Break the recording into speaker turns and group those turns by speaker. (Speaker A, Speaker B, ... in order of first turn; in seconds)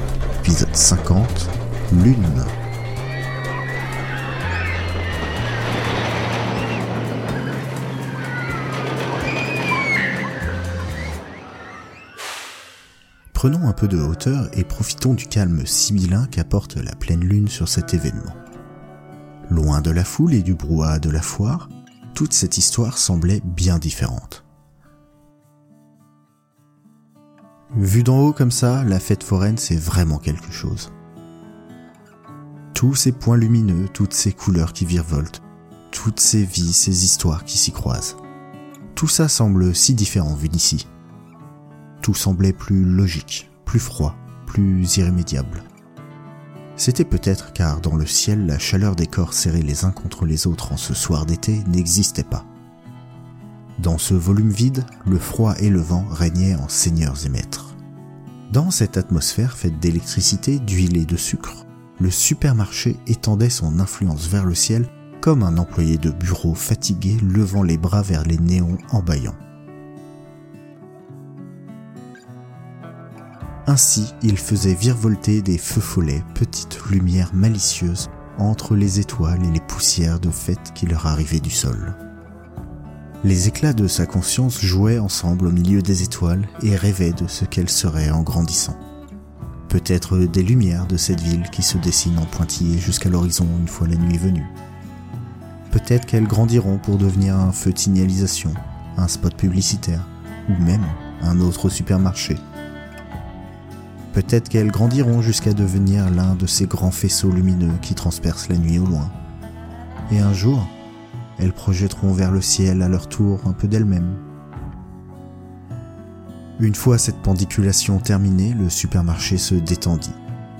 Speaker A: 0.4-2.5, 13.3-18.4, 19.5-24.4, 27.7-30.9, 32.7-38.2, 38.9-40.9, 42.0-45.6, 46.8-52.5, 53.8-57.8, 58.5-69.4, 73.7-82.0, 83.2-88.8, 89.7-94.5, 95.7-102.4, 104.1-109.1, 110.1-110.7, 111.4-114.2, 116.6-120.2